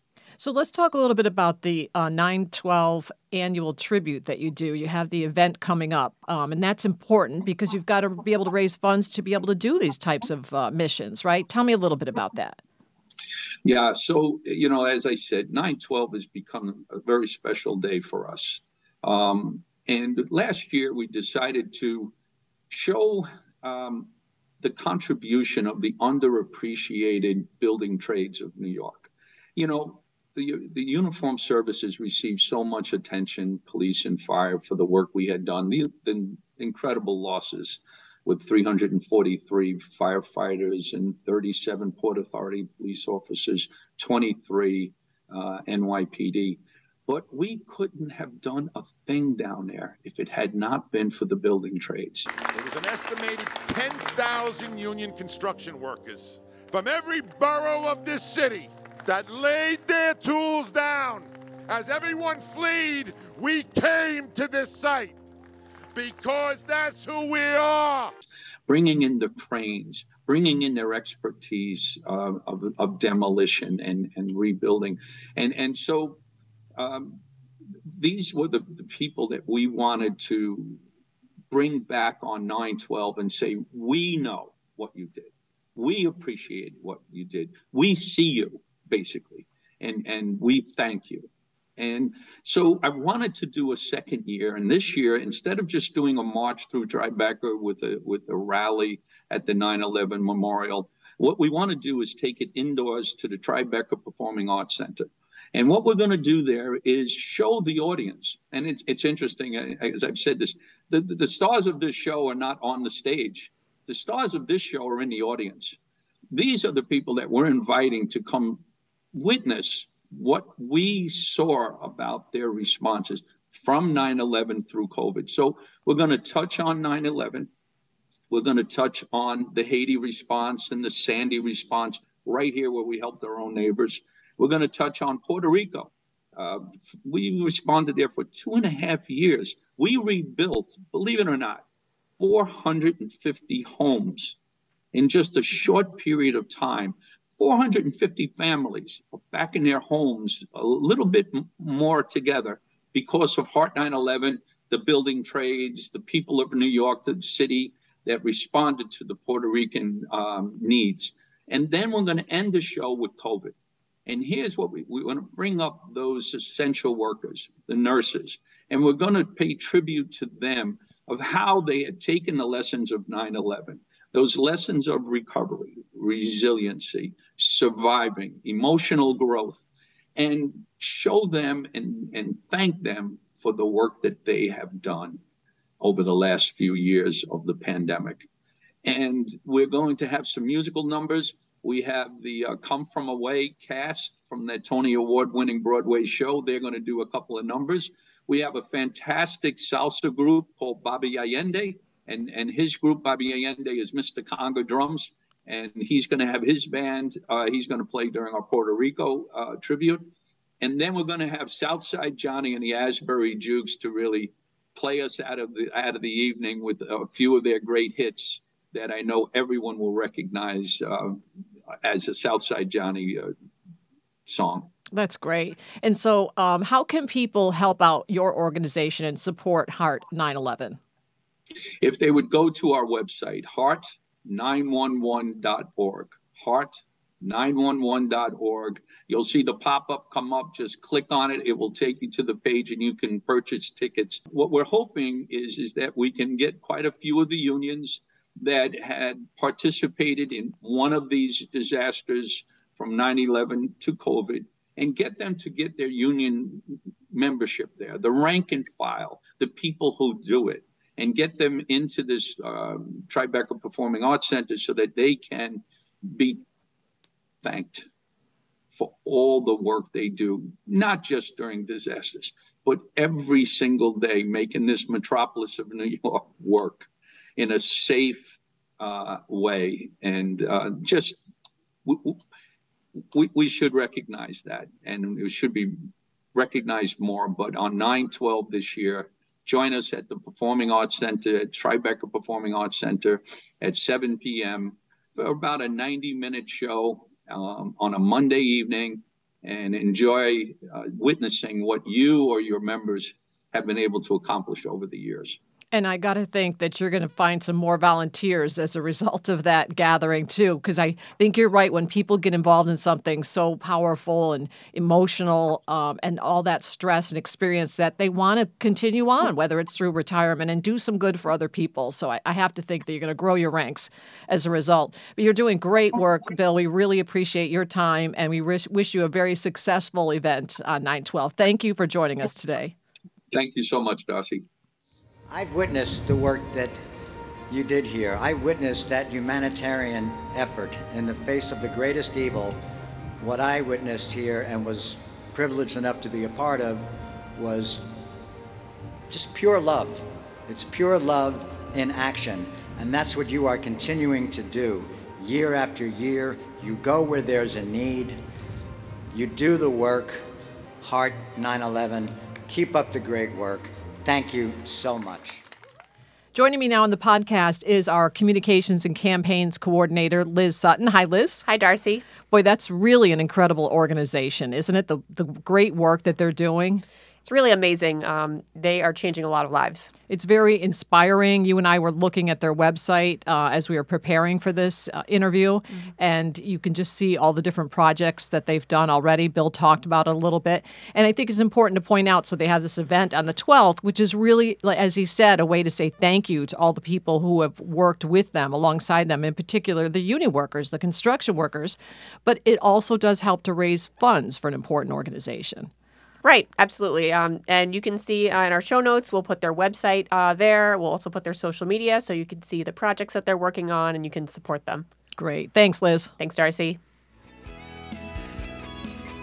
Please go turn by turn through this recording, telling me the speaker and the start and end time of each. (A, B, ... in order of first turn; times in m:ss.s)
0:00.4-0:12.6 A
0:13.6-0:22.1 B
0:22.7-0:52.3 B
0:52.5-1:05.2 C
1:06.0-1:08.1 C
1:08.7-1:16.2 B
1:16.8-1:17.2 B
1:17.9-1:20.8 B
1:21.5-1:55.8 B
1:56.3-1:58.6 B
1:59.1-2:07.5 B
2:08.3-2:21.6 B
2:22.2-2:24.4 B
2:24.9-2:43.6 B
2:44.1-2:59.6 B
3:00.2-3:05.2 B
3:05.8-3:08.3 B
3:08.8-3:30.1 B
3:30.6-3:41.2 B
3:41.8-3:43.3 B
3:44.3-3:44.7 B
3:44.9-3:50.8 A
3:51.8-4:26.4 B
4:27.4-4:27.9 B
4:28.7-4:41.2 B
4:41.9-4:42.2 B
4:43.1-4:45.8 B
4:46.4-5:05.4 B
5:05.7-5:32.8 A
5:33.3-5:34.4 B
5:35.3-5:36.8 D
5:37.5-5:42.6 D
5:43.2-5:47.9 D
5:49.1-5:58.2 D
5:59.1-6:00.2 D
6:00.8-6:05.4 D
6:06.3-6:11.5 A
6:11.5-6:12.1 E
6:12.3-6:16.8 A
6:17.2-6:19.9 E
6:20.1-6:45.7 A
6:46.2-6:54.9 E
6:55.2-6:56.1 A
6:56.2-6:56.8 E